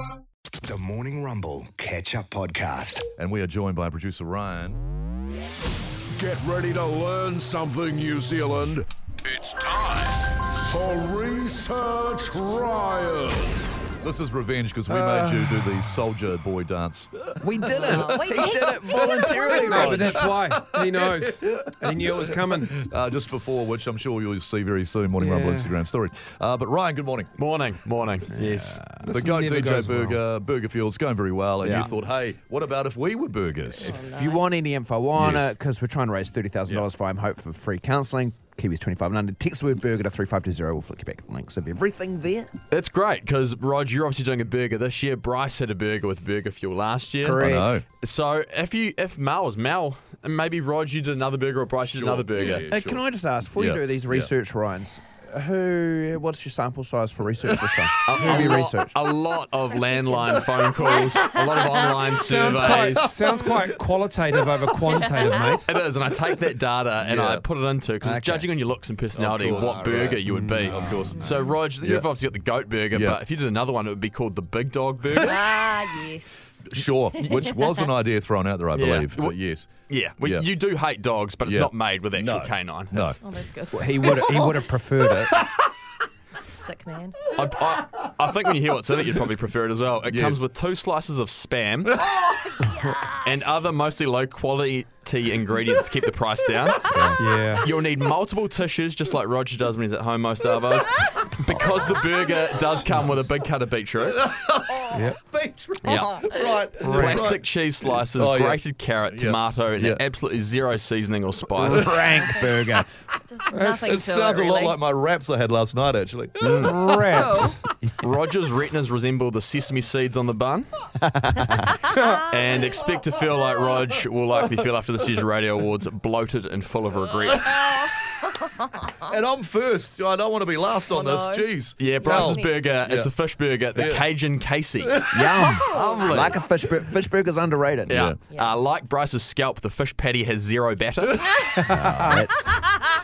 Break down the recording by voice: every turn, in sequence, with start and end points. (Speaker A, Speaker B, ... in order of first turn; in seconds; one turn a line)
Speaker A: 0.6-3.1
Speaker B: 3.2-4.8
Speaker C: 6.2-13.7
Speaker B: 14.0-27.4
Speaker D: 14.9-15.9
Speaker E: 17.4-20.3
Speaker F: 17.7-18.8
Speaker D: 19.5-22.8
Speaker D: 25.2-25.8
Speaker G: 27.4-28.8
Speaker D: 28.8-30.2
Speaker B: 29.1-34.0
Speaker G: 31.6-31.9
Speaker F: 33.7-34.5
Speaker E: 33.8-42.5
Speaker B: 35.2-35.5
Speaker G: 42.7-52.7
Speaker E: 47.2-47.8
Speaker B: 47.4-47.9
Speaker B: 51.8-53.0
Speaker E: 52.7-59.0
Speaker B: 53.6-54.3
Speaker G: 58.1-63.1
Speaker F: 61.1-62.1
Speaker D: 62.1-65.7
Speaker B: 62.5-63.1
Speaker F: 64.8-65.6
Speaker G: 65.7-75.5
Speaker B: 67.0-67.4
Speaker E: 68.0-68.5
Speaker B: 69.1-72.1
Speaker D: 70.2-71.1
Speaker F: 71.2-71.5
Speaker B: 72.9-73.2
Speaker F: 75.2-77.9
Speaker B: 76.7-80.5
Speaker G: 78.8-83.2
Speaker B: 81.5-83.2
Speaker F: 83.2-84.1
Speaker E: 83.7-85.3
Speaker F: 86.4-87.2
Speaker G: 87.3-92.0
Speaker B: 90.1-90.4
Speaker B: 92.0-92.5
Speaker F: 92.3-93.2
Speaker G: 93.2-104.2
Speaker D: 97.2-97.7
Speaker B: 104.1-110.0
Speaker D: 104.9-105.2
Speaker G: 105.8-106.3
Speaker F: 106.0-106.6
Speaker D: 106.8-107.2
Speaker G: 106.8-111.9
Speaker B: 111.6-112.4
Speaker E: 111.6-112.8
Speaker D: 111.7-112.8
Speaker F: 112.1-112.5
Speaker F: 113.3-114.9
Speaker D: 113.5-114.0
Speaker B: 113.8-117.3
Speaker G: 116.4-116.8
Speaker D: 116.6-117.6
Speaker F: 117.1-117.6
Speaker G: 117.9-120.7
Speaker E: 121.1-121.8
Speaker G: 122.3-127.5
Speaker B: 129.1-133.1
Speaker F: 130.9-132.8
Speaker G: 131.8-135.1
Speaker B: 133.8-134.1
Speaker B: 134.8-135.3
Speaker E: 135.1-138.0
Speaker F: 135.5-136.4
Speaker G: 135.7-136.4
Speaker G: 137.9-141.3
Speaker B: 137.9-138.2
Speaker F: 138.3-138.6
Speaker E: 141.6-142.6